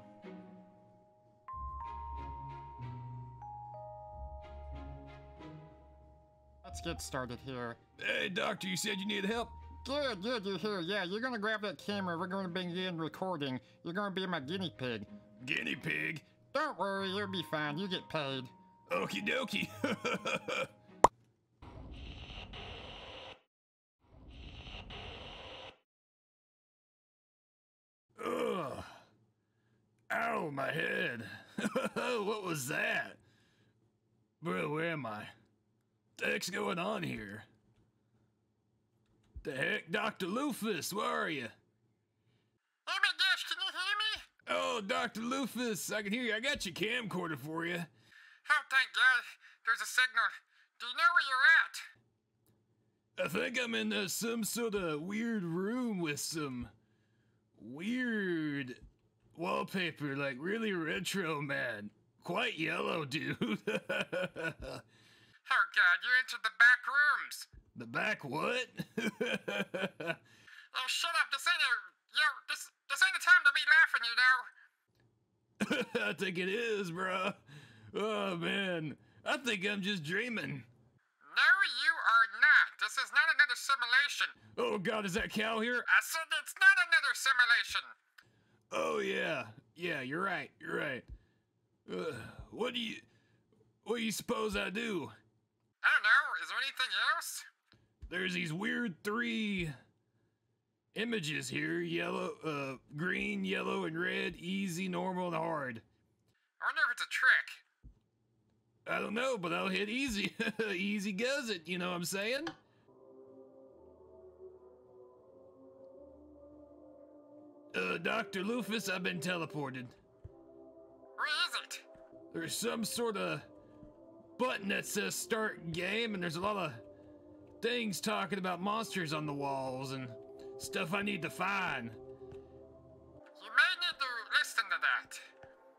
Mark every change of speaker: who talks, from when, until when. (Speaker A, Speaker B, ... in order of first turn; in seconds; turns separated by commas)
Speaker A: 6.6-7.8, Speaker B: 8.0-9.6, Speaker A: 9.8-15.1, Speaker B: 15.4-16.3, Speaker A: 16.5-18.5, Speaker B: 18.9-20.7, Speaker B: 28.2-29.0, Speaker B: 30.1-33.2, Speaker B: 34.4-35.3, Speaker B: 36.2-37.5, Speaker B: 39.4-41.5, Speaker A: 42.9-44.3, Speaker B: 44.5-47.9, Speaker A: 48.5-51.9, Speaker B: 53.2-56.7, Speaker B: 57.6-58.8, Speaker B: 59.3-64.8, Speaker A: 65.5-67.5, Speaker B: 67.7-70.2, Speaker A: 70.7-74.5, Speaker B: 75.6-80.7, Speaker A: 81.2-84.4, Speaker B: 84.5-85.9, Speaker A: 85.9-88.0, Speaker B: 88.7-91.1, Speaker B: 91.9-93.1, Speaker B: 93.8-95.2, Speaker A: 95.8-97.5, Speaker B: 98.1-99.8, Speaker B: 100.9-105.8, Speaker A: 106.6-107.6, Speaker B: 108.9-112.5, Speaker B: 117.7-120.0, Speaker A: 121.2-121.8, Speaker B: 122.3-123.5, Speaker B: 124.4-126.8, Speaker B: 127.6-132.0, Speaker A: 133.4-135.2